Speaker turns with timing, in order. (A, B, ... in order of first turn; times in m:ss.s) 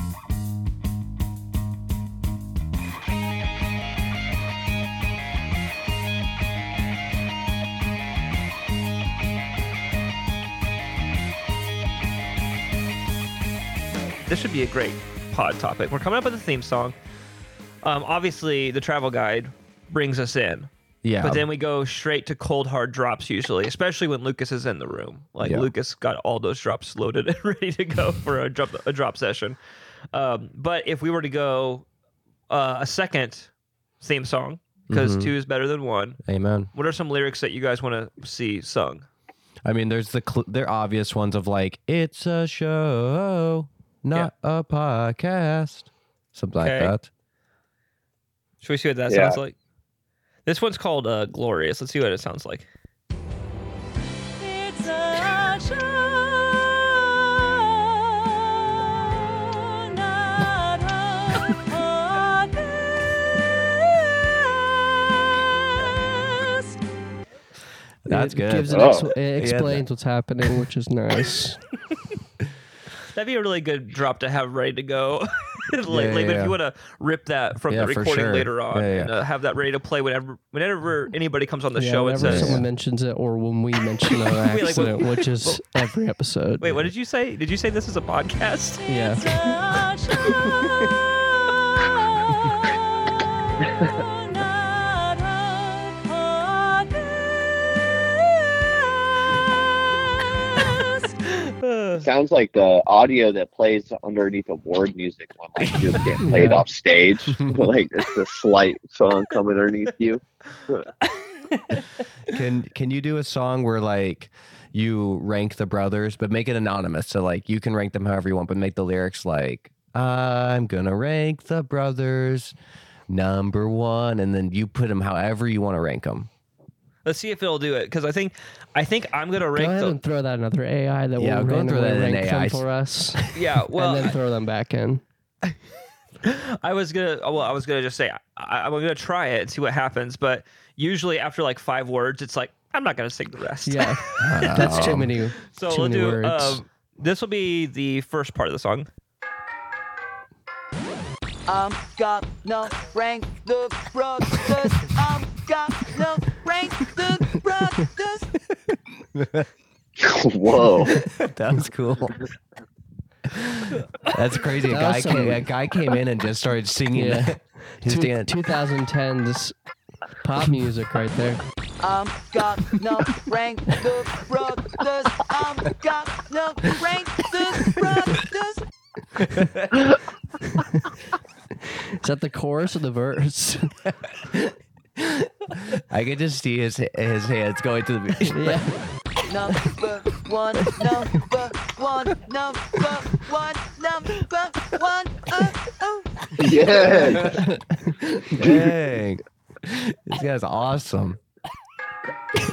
0:14.2-0:17.0 A
0:17.8-0:20.7 A
0:21.0-0:21.4 B
0:21.2-0:29.6 A
0:25.4-0:25.7 B
0:30.1-0:31.8 A
0:32.5-0:33.5 A
0:34.0-0:36.2 A
0:34.9-0:35.3 B
0:36.2-0:36.7 B
0:36.7-0:39.0 A
0:39.6-0:47.1 B
0:46.6-0:46.9 A
0:48.6-0:49.5 A
0:49.1-0:49.4 C
0:50.4-0:52.7 A
0:54.4-0:57.8 D
0:58.7-1:04.6 D
1:05.8-1:06.8 D
1:08.0-1:09.8 B
1:08.1-1:11.6 E
1:08.7-1:09.1 C
1:13.1-1:22.6 A
1:15.9-1:16.6 B
1:17.7-1:19.1 B
1:21.8-1:26.6 E
1:22.2-1:22.6 B
1:24.3-1:25.6 A
1:26.6-1:28.8 A
1:28.8-1:31.0 D
1:28.9-1:29.3 E
1:31.8-1:38.8 D
1:40.6-1:41.1 D
1:41.3-1:42.0 A
1:42.0-1:50.9 C
1:46.2-1:46.6 E
1:51.5-1:51.8 A
1:52.3-2:02.5 B
2:03.1-2:06.3 B
2:07.0-2:10.0 A
2:09.5-2:13.2 E
2:11.2-2:12.6 B
2:13.3-2:14.1 A
2:13.7-2:15.0 E
2:16.2-2:28.9 A
2:23.6-2:26.6 E
2:24.2-2:25.1 B
2:31.5-2:38.3 F
2:39.1-2:39.4 B
2:40.0-2:41.0 C
2:40.8-2:42.2 B
2:43.3-2:48.3 B
2:44.7-2:45.4 E
2:46.9-2:49.6 E
2:50.2-2:51.4 E
2:51.8-2:58.6 F
2:59.4-2:59.8 B
3:02.0-3:03.7 E
3:05.0-3:08.6 B
3:08.3-3:08.8 E
3:09.3-3:16.9 F
3:16.4-3:17.4 C
3:17.0-3:17.4 B
3:18.2-3:21.2 B
3:18.4-3:18.7 C